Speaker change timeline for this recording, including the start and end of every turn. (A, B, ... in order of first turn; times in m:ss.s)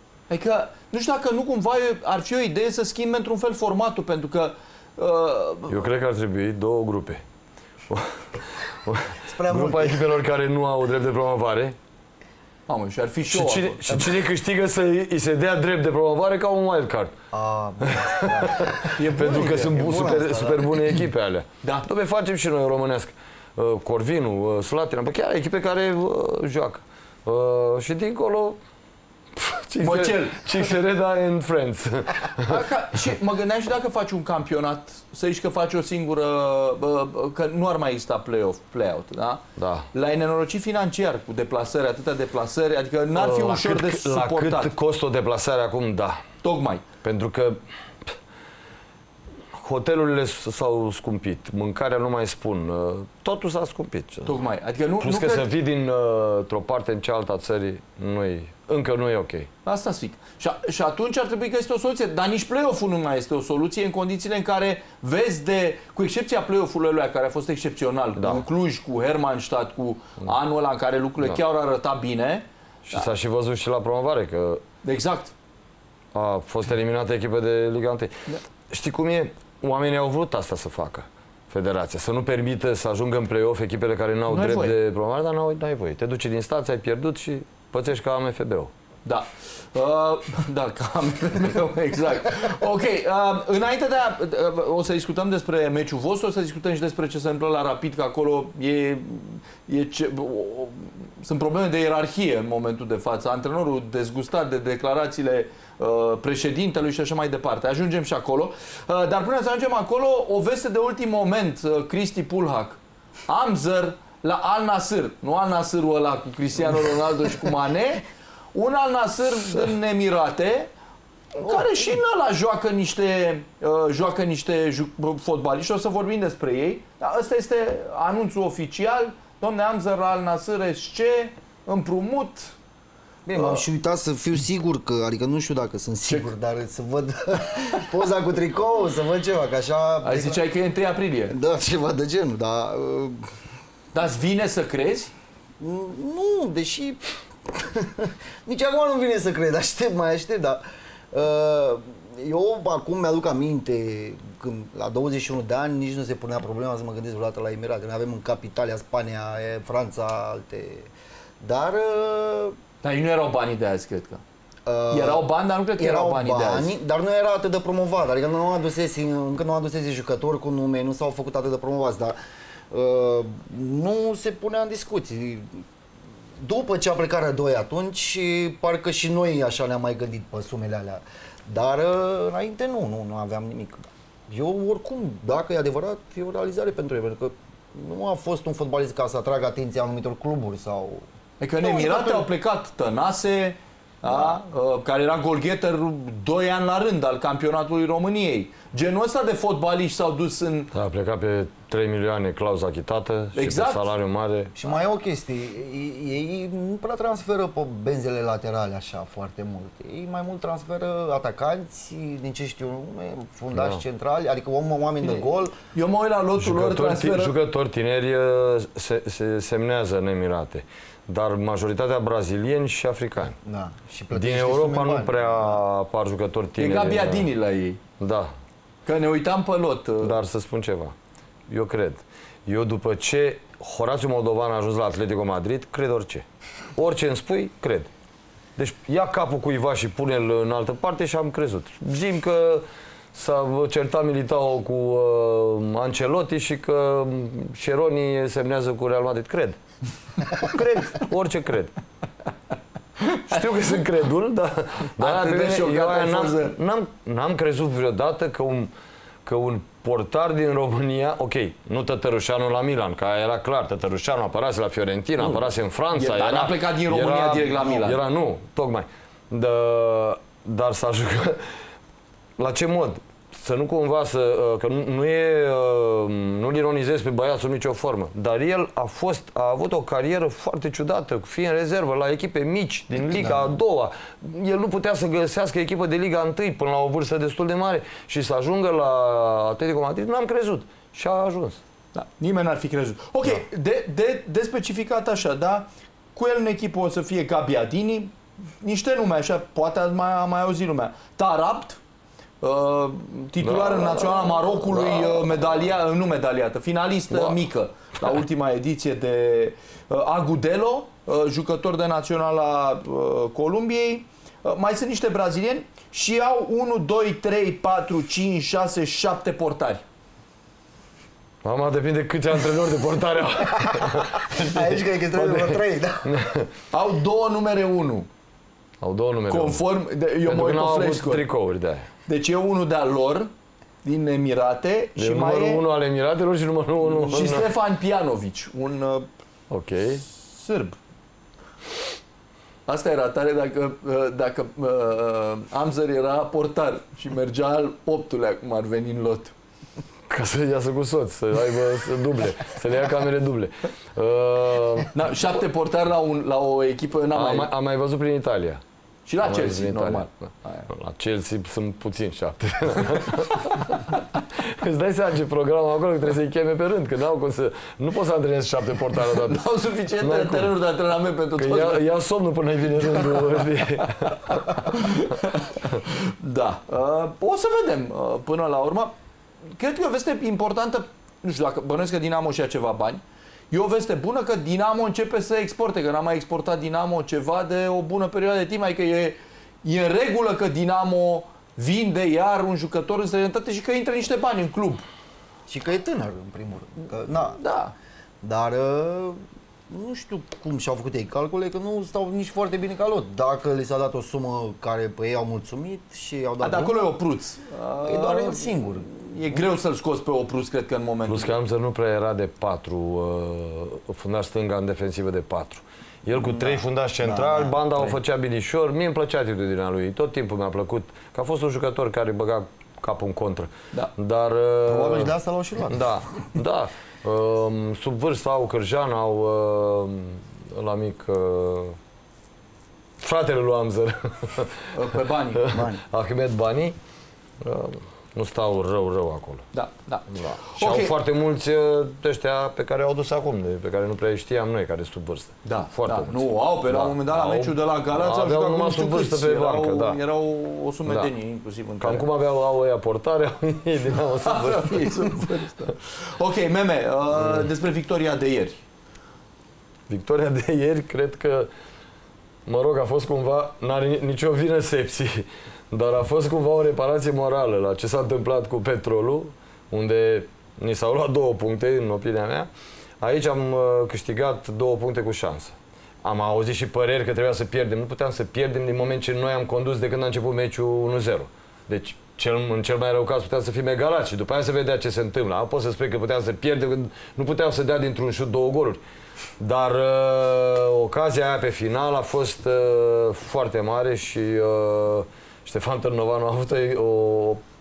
0:00.3-0:05.8 A
0:05.7-0:07.2 B
0:07.9-0:11.8 B
0:09.3-0:10.1 C
0:12.7-0:13.8 A
0:13.3-0:17.1 B
0:17.3-0:20.9 C
0:17.8-0:28.6 B
0:18.9-0:19.8 A
0:29.4-0:32.6 B
0:29.8-0:30.7 A
0:32.4-0:44.7 A
0:39.6-0:39.9 B
0:43.1-0:46.2 B
0:46.4-0:46.8 A
0:47.0-0:48.1 B
0:49.5-0:54.4 B
0:54.2-0:55.4 A
0:55.0-0:59.5 B
0:59.6-1:13.1 A
1:08.2-1:08.4 B
1:12.9-1:14.6 B
1:14.8-1:15.3 A
1:16.1-1:28.7 B
1:24.3-1:24.7 A
1:29.0-2:00.7 A
2:01.3-2:12.5 A
2:13.3-2:20.4 C
2:20.0-2:21.4 A
2:21.3-2:23.2 C
2:23.9-2:25.1 A
2:25.6-2:42.6 C
2:42.8-2:44.2 A
2:44.6-2:52.2 C
2:44.9-2:46.7 A
2:52.7-2:55.6 C
2:56.4-3:11.0 C
3:11.4-3:20.7 A
3:11.6-3:12.3 C
3:14.1-3:14.3 C
3:20.7-3:24.5 B
3:23.3-3:23.8 A
3:24.6-3:35.5 C
3:33.5-3:33.8 B
3:35.0-3:37.3 A
3:36.4-3:43.4 B
3:43.4-3:45.6 C
3:44.1-3:47.3 B
3:46.6-3:47.8 A
3:48.0-3:48.3 B
3:48.8-3:50.2 A
3:50.0-3:50.9 B
3:51.5-3:56.2 B
3:56.8-3:57.9 B
3:58.6-4:09.6 B
4:10.3-4:11.7 B
4:13.1-4:18.7 B
4:15.0-4:16.5 A
4:19.2-4:31.4 B
4:25.9-4:28.0 A
4:32.4-4:51.6 B
4:51.9-5:01.8 A
5:02.4-5:19.8 A
5:03.4-5:05.4 B
5:07.1-5:07.4 B
5:21.4-5:26.5 B
5:23.6-5:26.1 C
5:26.7-5:28.1 A
5:28.8-5:29.6 B
5:29.3-5:31.2 A
5:30.2-5:31.9 B
5:32.0-5:33.3 A
5:33.8-5:35.6 A
5:35.0-5:37.5 B
5:36.8-5:39.1 A
5:39.5-5:40.0 B
5:40.0-5:40.8 A
5:42.7-5:49.3 A
5:50.1-5:54.9 B
5:54.9-5:57.5 A
5:57.1-5:58.6 B
5:59.1-6:00.7 A
5:59.2-6:09.5 B
6:09.2-6:11.8 A
6:10.0-6:10.5 B
6:11.4-6:14.8 B
6:14.3-6:18.9 A
6:19.6-6:34.8 A
6:35.5-6:37.4 C
6:37.4-6:37.7 A
6:38.2-6:46.8 C
6:46.4-6:51.3 A
6:47.8-6:48.9 C
6:51.1-7:05.1 B
6:56.2-6:58.0 C
7:04.6-7:05.9 C
7:05.6-7:11.8 B
7:13.0-7:14.6 B
7:14.7-7:15.5 A
7:15.4-7:16.8 B
7:15.5-7:15.8 C
7:17.4-7:19.4 B
7:19.5-7:20.9 A
7:20.1-7:30.0 B
7:25.4-7:32.1 A
7:31.8-7:35.2 B
7:34.2-7:38.6 A
7:39.9-7:41.5 B
7:42.4-7:52.5 B
7:53.0-8:08.8 B
8:09.4-8:17.4 B